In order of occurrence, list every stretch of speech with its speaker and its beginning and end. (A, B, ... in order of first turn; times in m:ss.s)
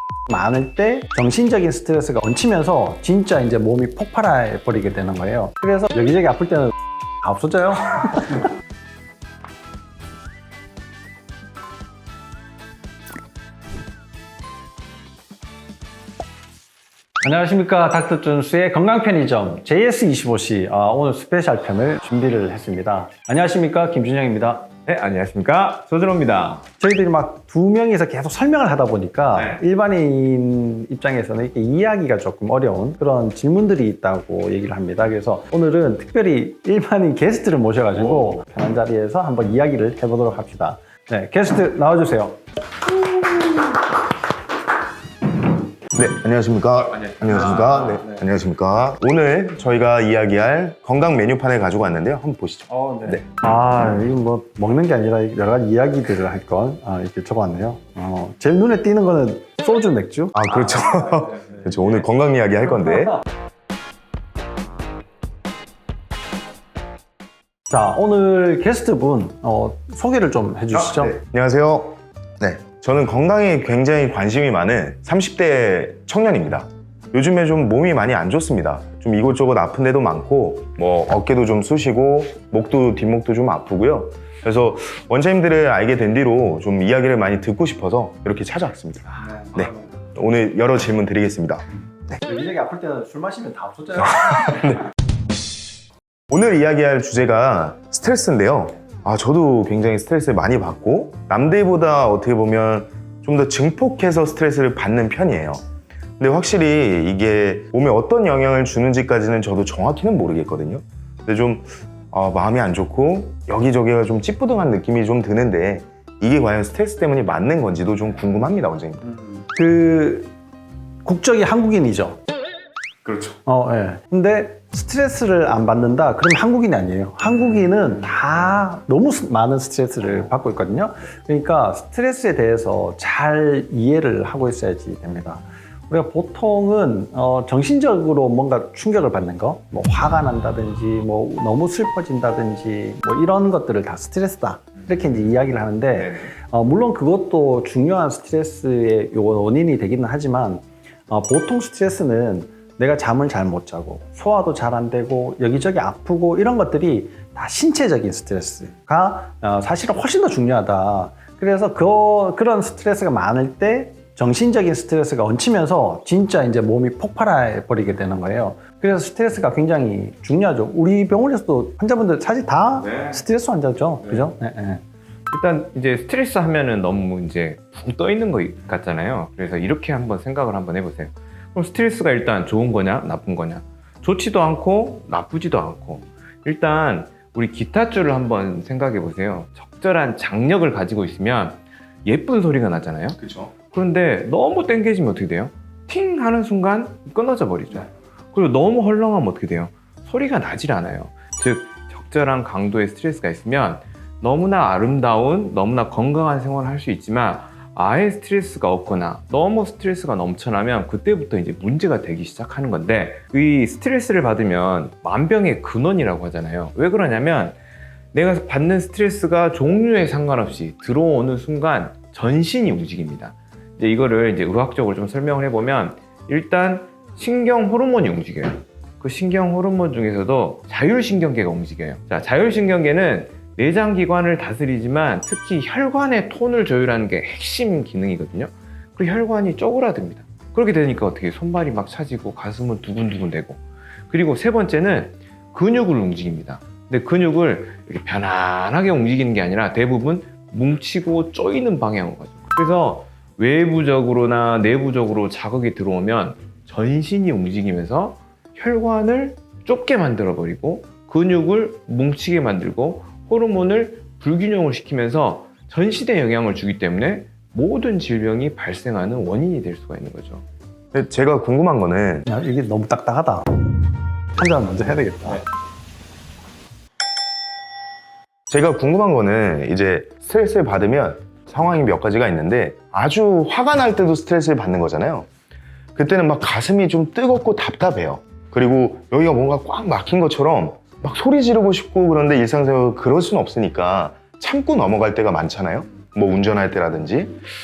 0:00.3-0:08.5 A
0:17.2-0:24.7 A
0:24.8-0:26.6 B
0:26.8-0:42.4 A
0:29.3-0:29.6 B
0:45.9-0:53.2 C
0:46.9-0:48.1 B
0:52.7-1:00.5 A
1:00.3-1:03.2 C
1:07.7-1:11.2 A
1:10.7-1:32.2 C
1:29.2-1:30.0 A
1:32.2-1:34.6 A
1:34.2-1:34.8 C
1:36.3-1:45.6 C
1:46.2-1:59.0 C
1:59.5-2:00.3 A
2:01.0-2:02.2 A
2:03.0-2:03.3 C
2:03.4-2:54.8 A
2:25.9-2:26.3 B
2:52.8-2:53.1 B
2:55.3-3:13.2 B
3:13.2-3:13.5 C
3:13.7-3:37.6 B
3:38.1-4:30.4 B
4:30.9-4:32.2 C
4:32.2-4:33.4 A
4:34.4-4:35.4 A
4:38.5-4:45.3 C
4:45.9-4:57.5 C